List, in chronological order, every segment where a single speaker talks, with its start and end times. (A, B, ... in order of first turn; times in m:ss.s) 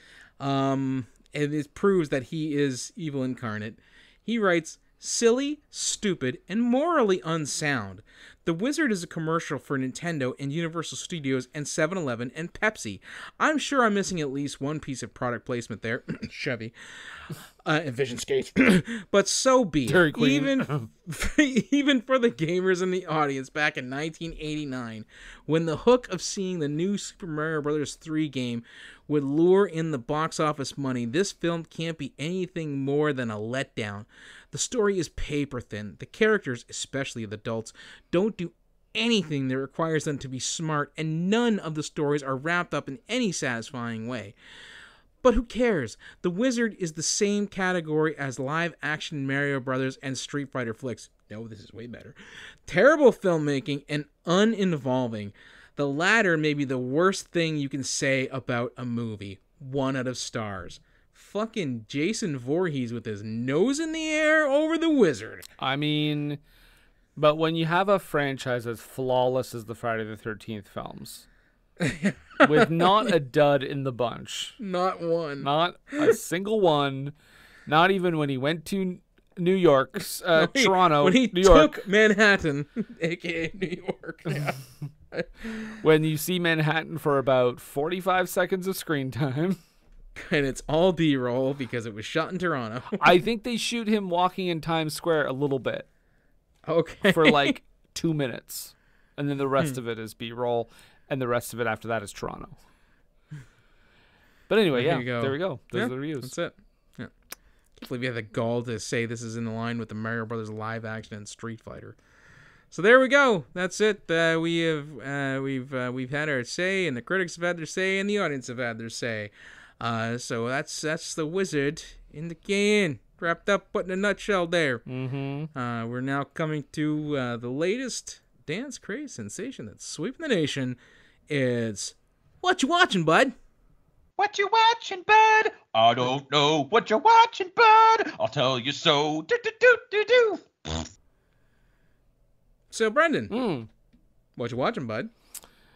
0:00.4-0:44.4 A
0:19.9-0:20.9 B
0:45.2-1:05.4 A
1:05.6-1:06.4 B
1:07.2-1:11.2 B
1:11.8-1:13.1 A
1:12.4-1:14.6 B
1:14.6-1:16.2 A
1:15.4-1:17.1 B
1:17.7-1:21.7 B
1:20.3-1:25.8 A
1:25.8-1:29.6 B
1:30.2-1:33.0 A
1:32.9-1:35.9 B
1:36.6-1:37.6 A
1:37.1-1:42.6 B
1:44.5-1:46.3 B
1:44.7-1:47.1 A
1:47.8-1:52.0 A
1:52.7-2:04.8 A
2:04.9-2:05.5 B
2:05.5-2:13.3 A
2:14.2-2:20.8 C
2:22.7-2:23.3 A
2:23.3-2:23.7 B
2:24.4-2:25.1 A